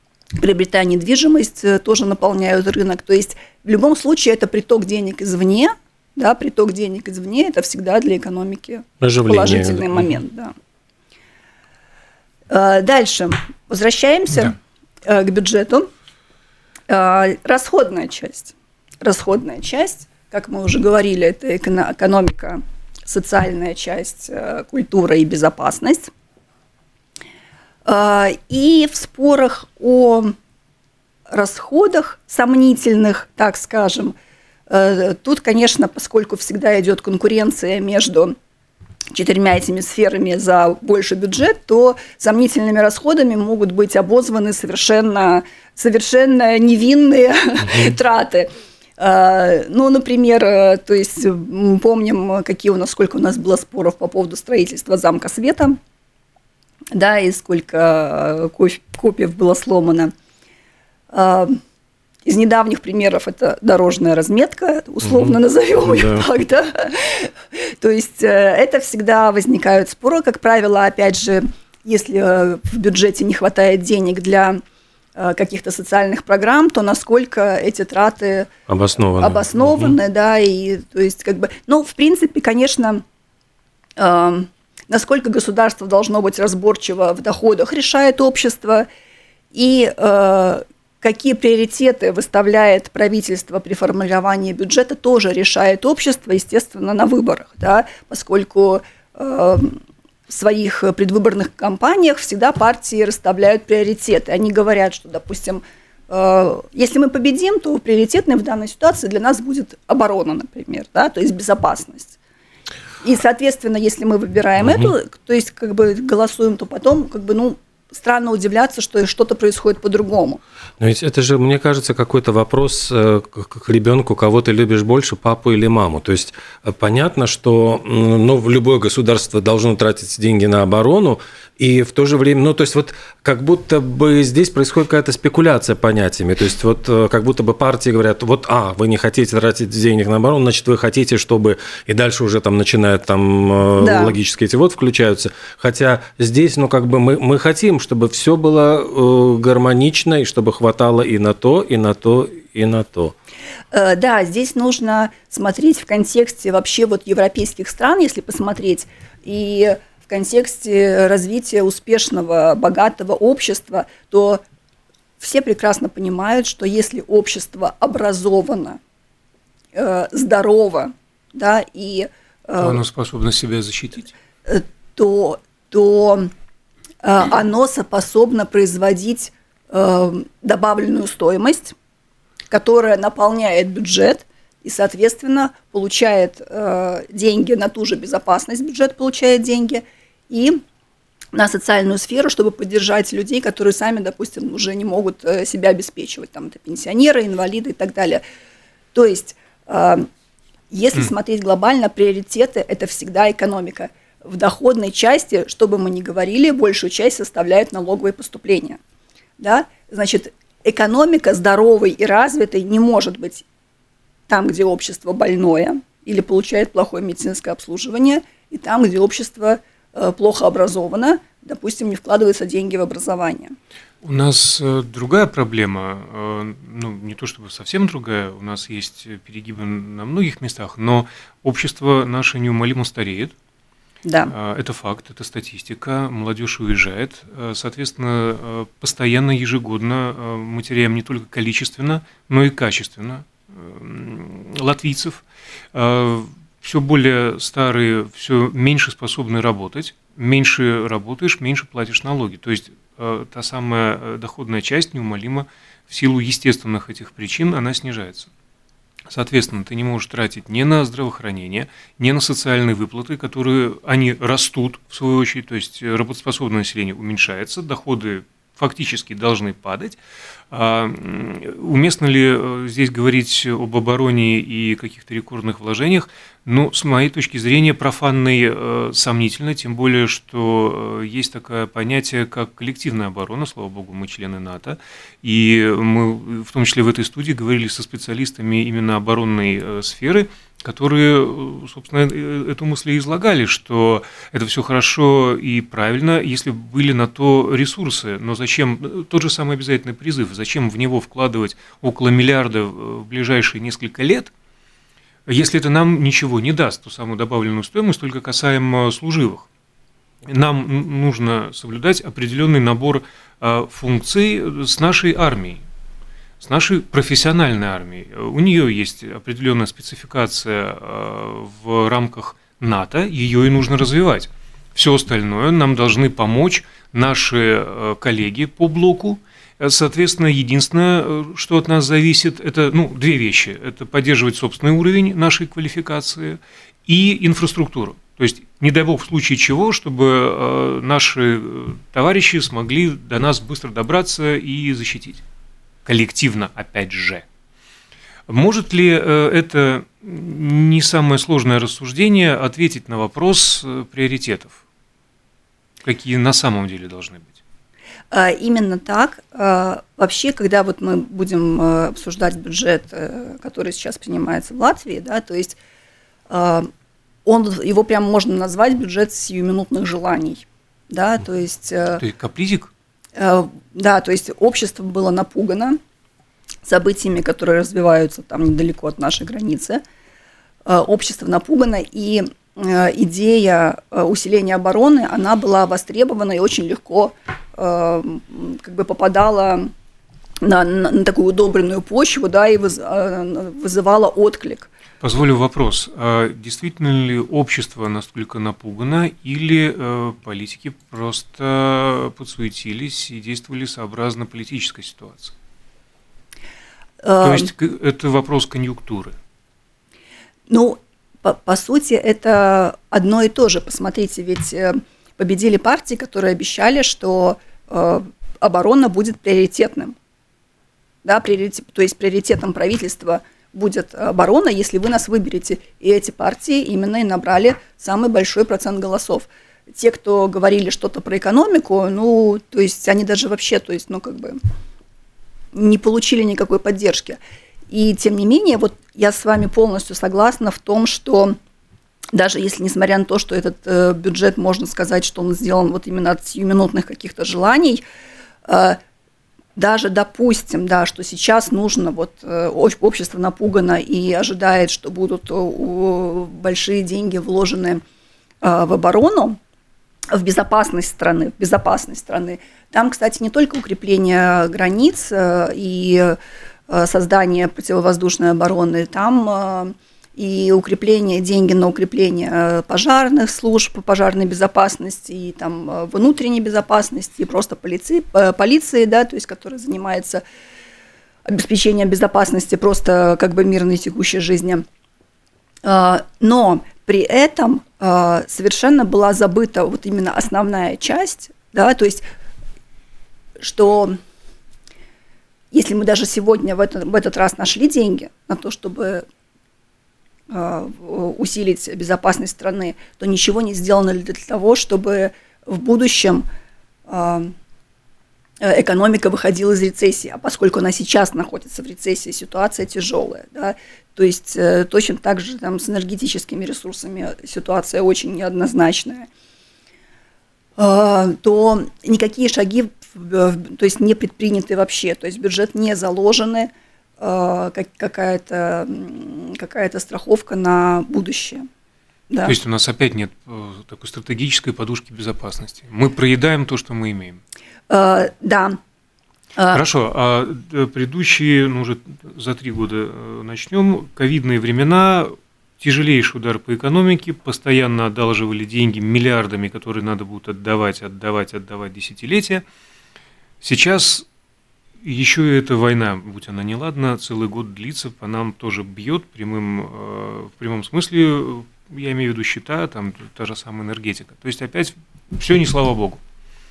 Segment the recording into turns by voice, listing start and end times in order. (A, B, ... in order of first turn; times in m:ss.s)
0:00.4-0:10.5 A
0:09.0-0:10.0 B
0:12.5-0:15.9 A
0:16.9-0:26.1 A
0:27.8-0:30.3 A
0:31.3-0:34.1 A
0:34.7-0:38.4 A
0:39.1-0:55.8 A
0:56.9-1:00.1 A
1:01.1-1:01.6 A
1:02.2-1:14.6 A
1:05.0-1:06.2 B
1:15.2-1:18.5 A
1:18.7-1:20.0 B
1:19.2-1:23.0 A
1:24.0-1:28.9 A
1:29.5-1:52.2 A
1:53.0-2:00.4 A
1:54.6-1:54.9 B
2:00.8-2:33.1 B
2:23.8-2:24.2 A
2:33.7-2:44.4 A
2:45.2-2:48.8 A
2:49.7-2:52.8 A
2:52.6-2:54.1 C
2:54.5-2:56.3 A
2:57.0-3:01.7 A
3:02.5-3:10.6 A
3:11.3-3:18.2 A
3:18.9-3:20.1 A
3:20.7-3:28.8 A
3:29.4-3:33.4 A
3:34.3-3:43.5 A
3:44.0-3:53.3 C
3:54.0-3:54.3 A
3:54.3-4:05.2 C
4:05.7-4:18.3 C
4:19.1-4:30.0 C
4:30.5-5:04.3 C
5:05.3-5:09.4 C
5:10.2-5:15.6 C
5:16.4-5:45.2 C
5:45.8-5:47.2 C
5:48.3-5:54.6 C
5:55.8-5:57.4 C
5:58.1-6:05.6 A
6:06.3-6:06.7 A
6:07.2-6:12.0 A
6:12.0-6:12.7 C
6:13.2-6:15.8 A
6:16.6-6:19.8 A
6:20.6-6:29.7 A
6:30.4-6:34.7 A
6:35.0-6:45.3 C
6:47.0-6:47.5 A
6:47.2-6:49.1 C
6:50.5-6:59.9 A
7:01.0-7:14.4 A
7:15.5-7:17.2 A
7:17.7-7:21.4 A
7:22.1-7:27.8 A
7:28.5-7:28.8 A
7:29.6-7:37.8 A
7:38.4-7:39.4 A
7:40.1-7:46.2 A
7:46.7-8:00.2 A
8:01.2-8:04.6 A
8:05.6-8:12.0 A
8:13.4-8:14.0 A
8:15.5-8:19.0 A
8:20.3-8:26.2 A
8:26.9-8:27.3 A
8:28.4-8:39.1 A
8:40.6-8:51.4 A
8:52.1-8:52.3 A
8:52.2-8:57.2 C
8:57.7-8:58.6 A
8:59.5-9:12.4 C
9:13.4-9:14.0 C
9:14.8-9:26.0 C